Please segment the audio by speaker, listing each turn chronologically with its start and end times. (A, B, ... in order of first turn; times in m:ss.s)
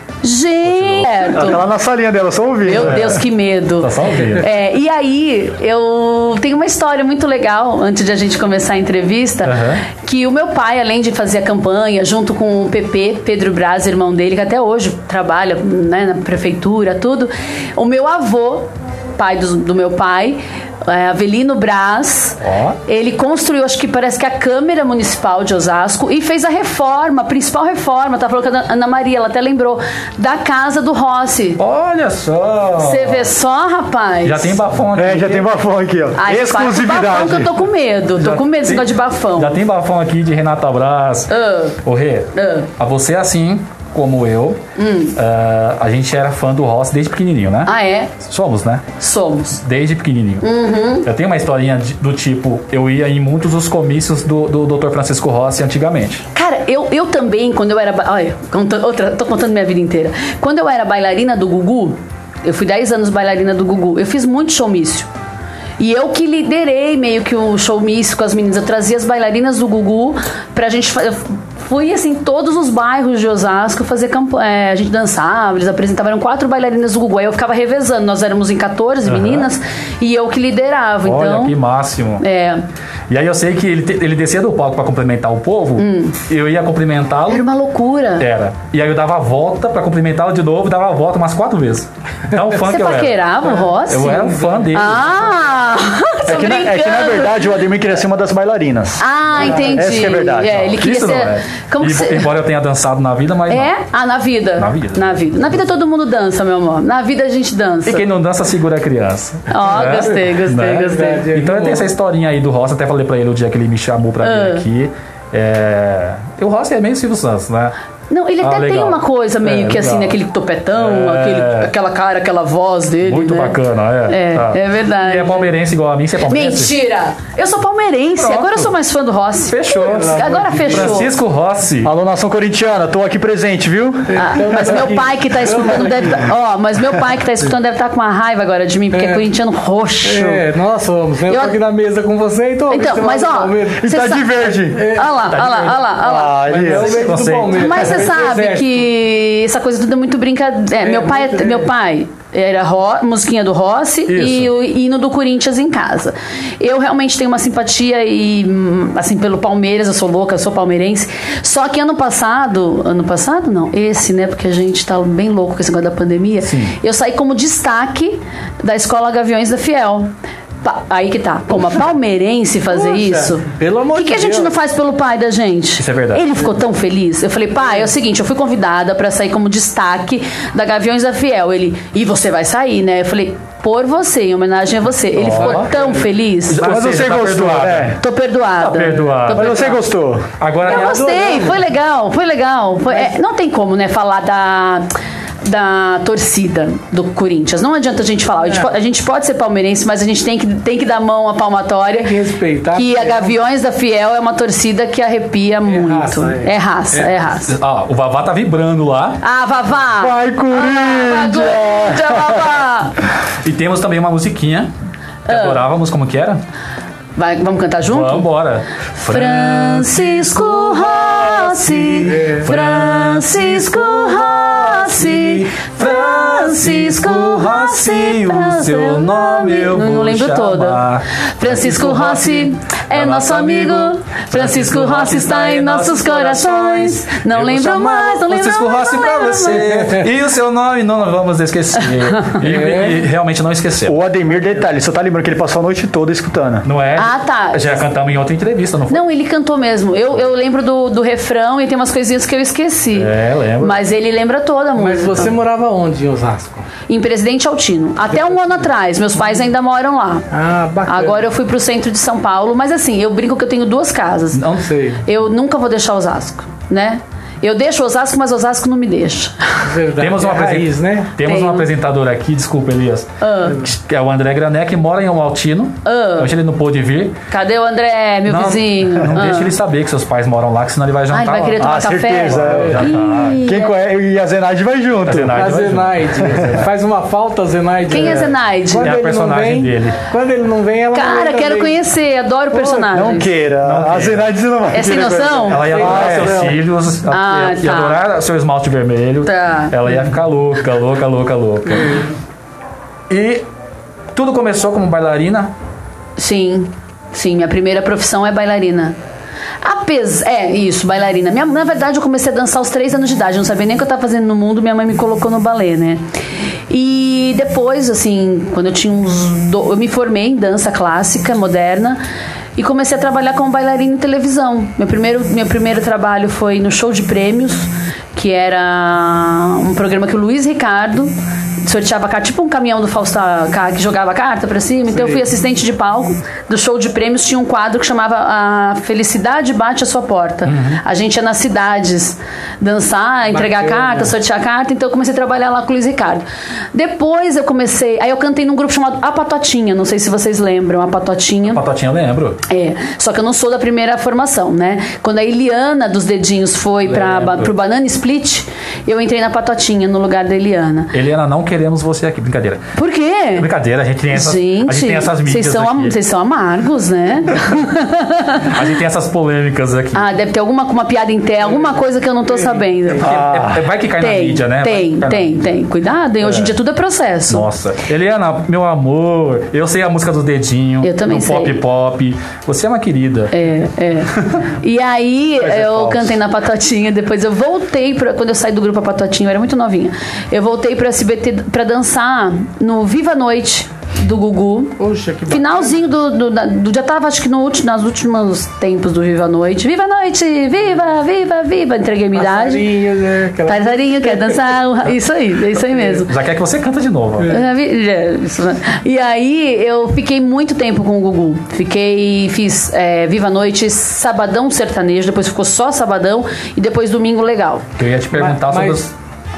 0:00.2-0:01.6 A
0:00.6-0:01.3 B
0:01.3-0:03.2 C
0:02.6-0:31.6 A
0:02.8-0:03.1 B
0:03.8-0:04.4 B
0:09.4-0:09.8 B
0:22.4-0:22.8 B
0:31.6-0:33.3 B
0:32.8-0:34.6 A
0:34.2-0:35.5 B
0:34.9-0:37.5 C
0:36.2-0:39.6 A
0:38.2-0:41.3 B
0:41.3-0:41.8 A
0:41.8-0:44.6 B
0:42.3-0:42.7 A
0:44.8-0:45.2 A
0:45.2-0:48.8 B
0:47.6-0:48.1 A
0:49.0-0:49.6 A
0:49.6-0:50.4 B
0:50.4-0:51.1 A
0:51.0-0:56.2 B
0:56.3-1:05.1 A
1:05.8-1:21.6 A
1:19.0-1:19.5 B
1:21.0-1:22.2 B
1:22.2-1:22.6 A
1:23.1-1:27.4 B
1:25.8-1:26.2 A
1:27.3-1:28.3 A
1:28.2-1:33.2 B
1:32.6-1:37.4 A
1:33.9-1:35.2 B
1:34.4-1:34.7 D
1:36.2-1:39.0 C
1:39.0-1:42.3 A
1:39.4-1:39.7 D
1:39.6-1:40.7 C
1:40.7-1:43.7 B
1:43.5-1:48.0 A
1:44.6-1:45.8 B
1:47.9-1:57.7 B
1:49.5-1:51.3 A
1:50.7-1:51.9 D
1:54.2-1:54.6 A
1:58.1-2:03.5 A
1:58.4-2:00.1 B
2:00.7-2:01.7 B
2:03.0-2:06.7 B
2:04.1-2:05.5 A
2:06.3-2:11.1 A
2:08.2-2:08.7 B
2:09.5-2:11.9 B
2:09.7-2:11.0 D
2:11.8-2:14.2 C
2:14.1-2:16.2 D
2:14.2-2:20.4 A
2:18.9-2:19.3 D
2:20.0-2:24.0 D
2:21.3-2:21.5 A
2:22.7-2:26.4 A
2:23.8-2:24.8 C
2:24.7-2:25.2 D
2:25.2-2:28.0 B
2:26.0-2:27.1 C
2:26.5-2:28.8 D
2:27.5-2:50.1 A
2:30.8-2:31.7 D
2:34.1-2:34.5 B
2:46.4-2:46.8 B
2:50.6-3:06.6 A
2:52.7-2:54.6 D
2:55.8-2:56.2 B
3:05.2-3:05.7 B
3:06.5-3:08.0 B
3:06.6-3:08.0 C
3:08.0-3:09.8 A
3:08.6-3:09.7 B
3:09.3-3:10.4 C
3:10.4-3:11.3 B
3:10.6-3:11.6 D
3:10.6-3:14.9 A
3:15.4-3:22.1 A
3:22.0-3:23.4 D
3:22.7-3:27.5 A
3:25.6-3:27.2 D
3:27.5-3:29.2 B
3:29.2-3:33.0 A
3:30.0-3:32.5 C
3:33.4-3:34.7 B
3:35.3-3:35.6 A
3:35.3-3:36.4 B
3:37.2-3:38.3 A
3:37.9-4:04.0 B
3:39.0-3:50.8 A
3:42.0-3:42.5 D
3:51.4-3:59.7 A
3:59.5-4:00.1 D
4:01.8-4:02.4 A
4:02.4-4:03.0 D
4:03.9-4:06.7 C
4:04.3-4:04.6 D
4:06.6-4:09.0 B
4:07.0-4:07.7 A
4:08.9-4:15.3 A
4:12.9-4:13.8 B
4:14.8-4:16.6 D
4:16.9-4:20.3 A
4:18.2-4:18.6 D
4:20.3-4:21.2 D
4:20.8-4:24.4 A
4:24.3-4:24.6 B
4:24.6-4:25.0 D
4:25.0-4:29.6 A
4:29.6-4:31.1 D
4:30.0-4:37.2 B
4:31.2-4:31.7 A
4:33.2-4:33.6 A
4:35.8-4:36.3 A
4:37.3-4:39.5 A
4:38.3-4:41.6 B
4:41.1-4:43.8 A
4:41.6-4:42.8 C
4:42.3-4:43.4 B
4:42.4-4:42.9 D
4:43.4-4:45.4 C
4:45.0-4:46.5 B
4:45.3-4:51.8 D
4:46.3-4:46.6 C
4:47.9-4:48.9 A
4:48.8-4:50.0 B
4:50.9-4:53.3 A
4:52.6-4:52.8 D
4:52.9-4:56.5 C
4:53.6-4:54.3 B
4:54.7-4:55.8 A
4:55.5-5:02.0 B
4:55.5-4:56.6 D
4:57.1-4:58.0 A
4:59.2-4:59.7 A
5:03.1-5:03.4 B
5:04.1-5:05.5 B
5:06.2-5:09.0 A
5:09.6-5:16.0 A
5:16.7-5:22.0 A
5:22.6-5:51.6 A
5:34.9-5:35.3 D
5:40.4-5:40.8 B
5:43.3-5:44.1 D
5:51.4-5:52.4 B
5:52.5-6:00.9 A
5:56.8-5:57.5 B
6:00.9-6:02.6 B
6:02.8-6:03.5 A
6:03.4-6:05.9 B
6:04.1-6:08.6 A
6:08.5-6:10.0 B
6:09.9-6:13.1 A
6:11.4-6:13.0 D
6:13.0-6:13.6 C
6:13.0-6:15.5 B
6:14.0-6:17.4 A
6:16.2-6:16.5 B
6:17.3-6:23.3 B
6:20.8-6:21.6 A
6:23.3-6:42.7 A
6:25.4-6:26.2 B
6:34.8-6:35.8 D
6:42.1-6:44.5 D
6:43.4-6:46.1 A
6:45.8-6:46.0 D
6:46.1-6:47.3 B
6:47.2-6:47.5 D
6:47.3-6:57.6 A
6:57.8-6:58.9 B
6:58.1-6:58.9 D